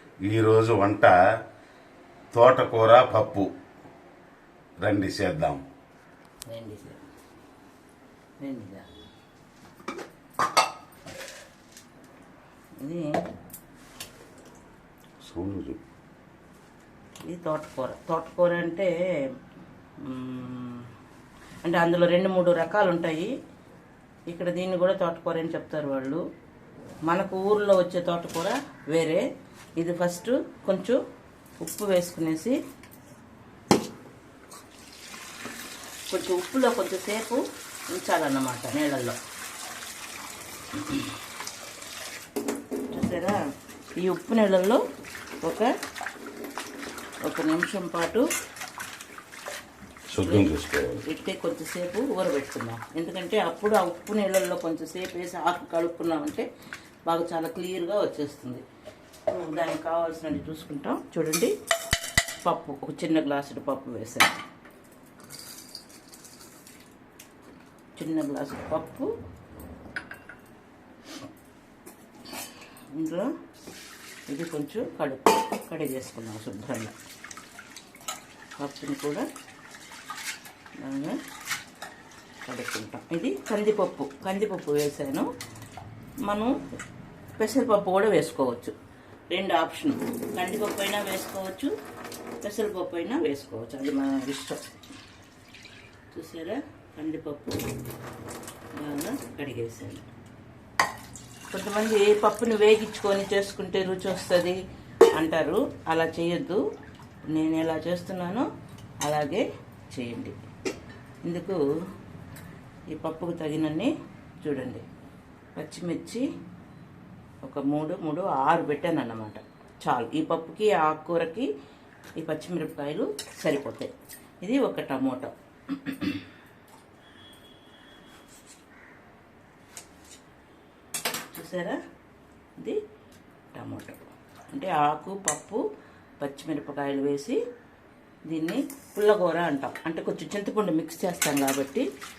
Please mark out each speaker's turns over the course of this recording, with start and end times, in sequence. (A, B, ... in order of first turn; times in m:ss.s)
0:00.2-0:01.3 A
0:02.3-0:03.5 A
0:04.8-0:05.6 A
0:06.5-0:07.0 B
0:08.4-0:08.9 B
0:12.8-0:13.1 B
0:15.2-0:15.8 A
0:17.3-0:18.9 B
0:20.0-0:20.9 B
0:21.6-0:23.3 B
0:24.3-0:26.2 B
0:27.1-0:29.2 B
0:29.8-0:31.0 B
0:31.6-0:32.6 B
0:36.1-0:39.2 B
0:40.7-0:41.1 B
0:42.9-0:43.4 B
0:44.0-0:44.8 B
0:45.4-0:45.7 B
0:47.2-0:48.2 B
0:50.1-0:51.0 A
0:50.2-0:50.5 B
0:51.0-0:56.5 B
0:57.1-0:58.6 B
0:59.3-1:01.5 B
1:02.4-1:04.4 B
1:08.0-1:09.1 B
1:12.9-1:13.3 B
1:14.3-1:16.9 B
1:18.6-1:19.2 B
1:20.8-1:21.2 B
1:22.5-1:25.3 B
1:26.2-1:26.6 B
1:27.4-1:28.7 B
1:29.3-1:31.7 B
1:32.4-1:34.6 B
1:36.1-1:37.6 B
1:38.8-1:40.1 B
1:41.5-1:44.6 B
1:45.1-1:46.6 B
1:47.3-1:48.4 B
1:49.0-1:50.4 B
1:51.2-1:51.6 B
1:52.9-1:54.8 B
1:55.6-1:56.2 B
1:57.4-2:01.5 B
2:02.2-2:06.2 B
2:11.3-2:11.8 B
2:13.5-2:15.6 B
2:16.2-2:17.4 B
2:18.3-2:21.9 B